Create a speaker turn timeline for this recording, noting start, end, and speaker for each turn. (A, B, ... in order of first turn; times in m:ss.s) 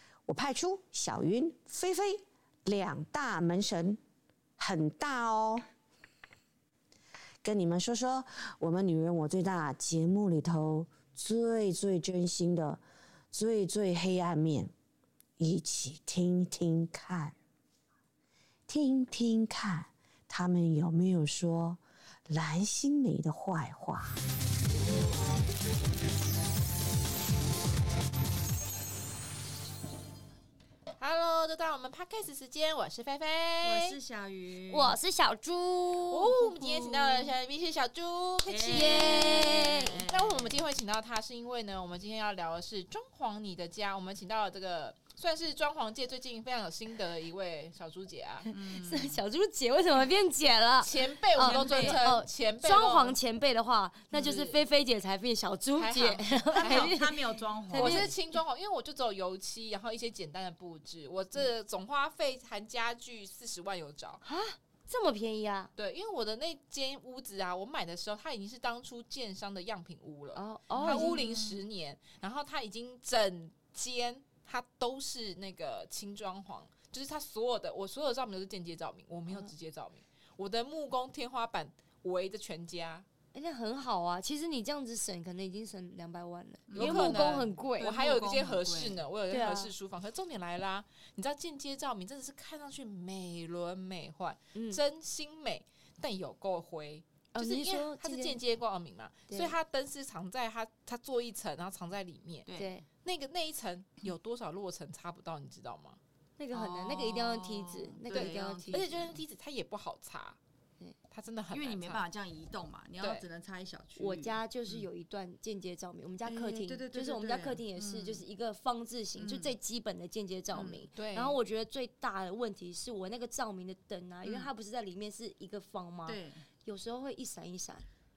0:00.3-0:04.0 A
0:04.6-0:05.6 A
0:07.4-0:14.7 A
0:15.4-0:17.4 A
0:18.7-0:24.2 A
0:31.0-0:34.0 B
0:33.6-0:35.0 C
0:34.7-0:37.3 D
0:36.1-0:48.5 B
0:38.5-0:40.6 C
0:38.7-0:40.1 D
0:48.5-0:58.1 D
0:48.5-0:49.2 C
0:50.8-0:53.2 B
0:51.4-0:52.1 C
0:54.1-0:54.4 C
0:54.2-0:54.6 B
0:55.8-0:57.0 B
0:56.5-0:58.1 C
0:57.7-1:04.2 B
1:04.2-1:05.7 D
1:05.8-1:23.1 B
1:10.4-1:11.2 D
1:10.8-1:11.6 C
1:23.3-1:27.9 D
1:26.7-1:29.0 C
1:26.7-1:42.5 B
1:29.3-1:29.7 D
1:34.6-1:34.8 D
1:37.4-1:38.4 D
1:39.3-1:39.6 D
1:42.5-1:42.7 C
1:42.6-1:42.8 D
1:43.0-1:46.0 B
1:46.4-1:48.9 D
1:46.5-1:49.2 C
1:48.1-1:50.4 B
1:51.1-1:52.0 B
1:51.5-1:54.9 C
1:53.0-1:53.3 B
1:54.0-2:07.9 D
1:56.3-1:58.2 C
1:59.2-1:59.5 C
2:00.5-2:00.8 C
2:01.0-2:01.4 B
2:04.2-2:04.5 C
2:06.1-2:06.4 C